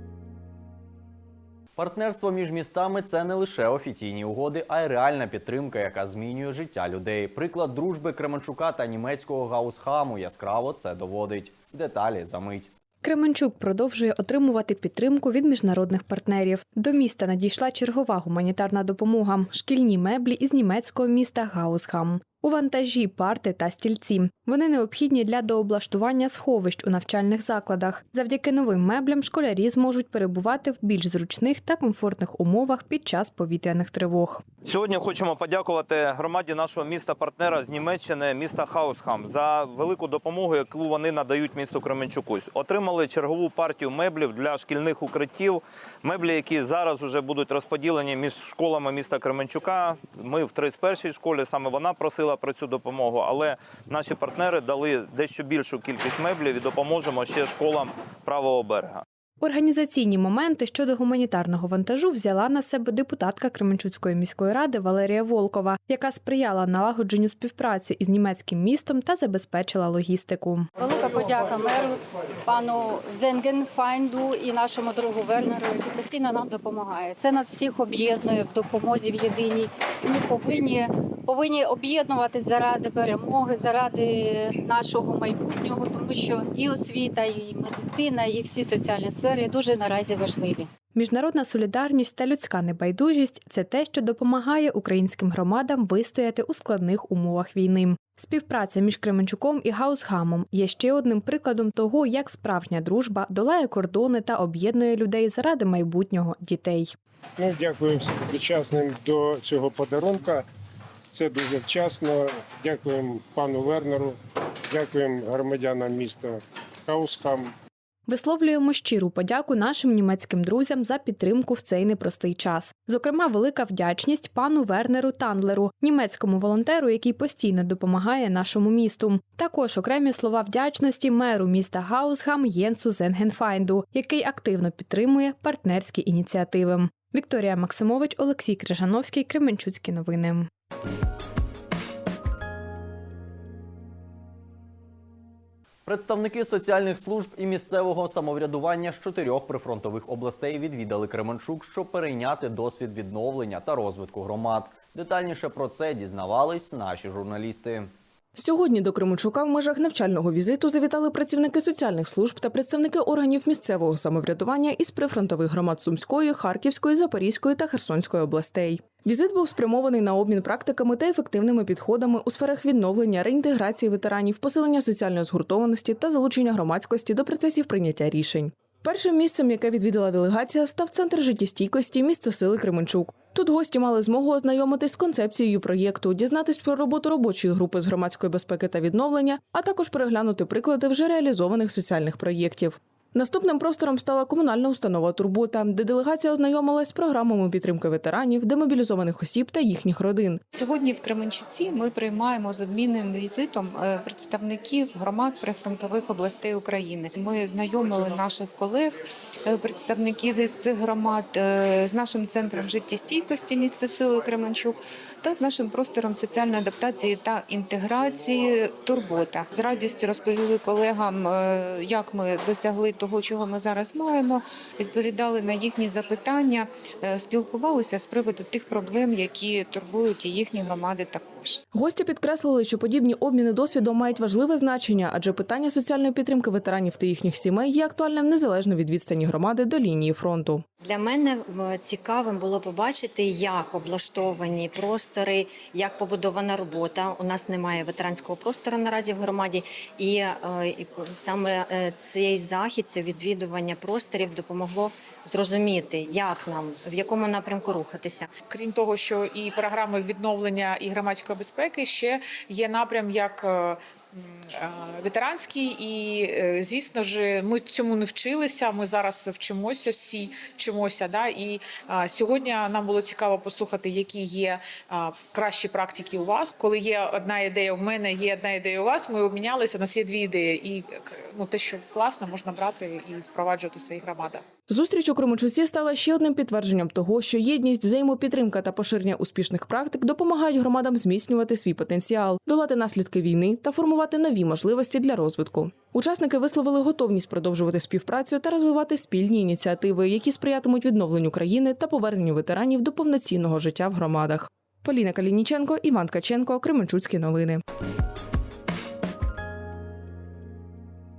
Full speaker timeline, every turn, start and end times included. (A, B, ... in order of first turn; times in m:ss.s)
0:01.8-0:12.7 A
0:13.0-0:34.4 B
0:34.6-0:59.0 C
0:59.4-1:10.7 B
1:10.8-1:30.7 D
1:31.0-1:46.9 B
1:47.4-1:50.5 E
1:51.1-1:54.2 E
1:54.7-1:57.5 E
1:58.1-2:20.5 B
2:25.9-2:37.9 A
2:38.4-3:20.4 F
3:20.5-3:51.6 G
3:51.7-4:00.6 F
4:00.8-4:18.3 H
4:18.5-4:44.4 I
4:44.7-5:07.6 F